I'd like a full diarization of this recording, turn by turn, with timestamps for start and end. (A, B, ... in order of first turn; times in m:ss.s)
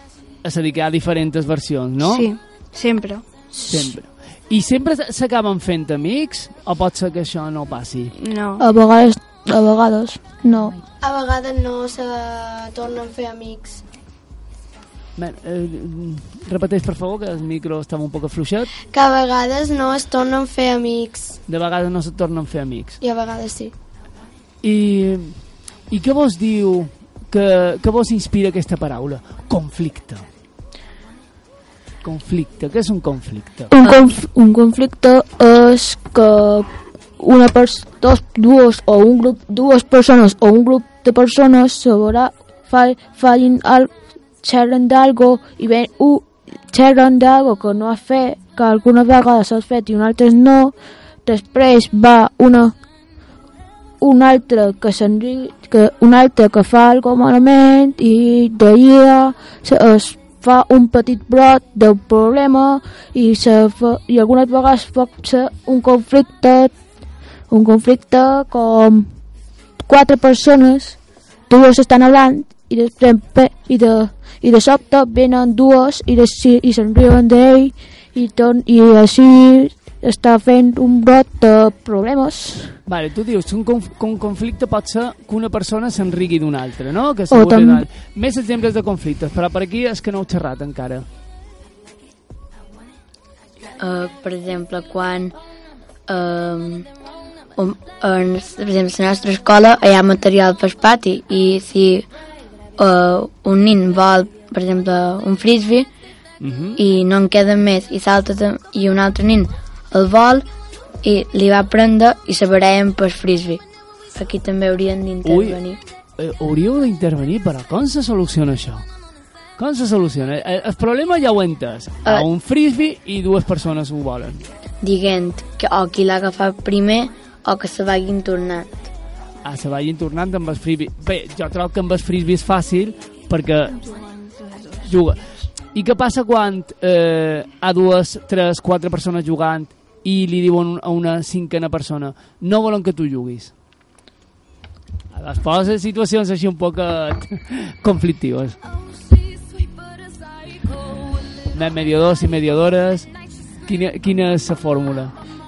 0:00.4-0:02.3 A
0:02.0-0:03.2 B
0:03.5-0:04.0 C
0:03.7-0:08.1 A
0:08.2-0:08.6 B
0:08.6-0:10.8 C
0:11.0-0:13.8 D
0:15.2-0:18.7 A
0:18.9-0:21.4 D
0:21.5-0:23.0 A
0:23.0-0:23.7 D
0:24.6-0:30.2 A
0:32.0-0:33.7 A
0:33.7-0:50.7 C
0:51.2-0:52.7 C
0:54.0-1:06.7 C
1:07.5-1:09.1 C
1:09.8-1:11.0 C
1:11.5-1:22.8 C
1:22.9-1:31.1 A
1:27.3-1:27.9 C
1:33.8-1:35.3 E
1:36.1-1:36.9 E
1:37.6-1:42.1 E
1:42.8-1:45.9 E
1:46.4-1:46.8 A
1:46.8-1:50.5 E
1:51.0-1:53.6 E
1:54.2-1:55.8 E
1:55.2-1:55.6 A
1:56.2-1:58.8 A
1:59.6-2:04.4 A
2:04.8-2:08.9 E
2:09.4-2:13.8 A
2:13.7-2:14.9 B
2:14.8-2:15.2 A
2:15.7-2:23.5 A
2:25.1-2:28.6 A
2:31.5-2:33.1 A
2:33.6-2:35.1 A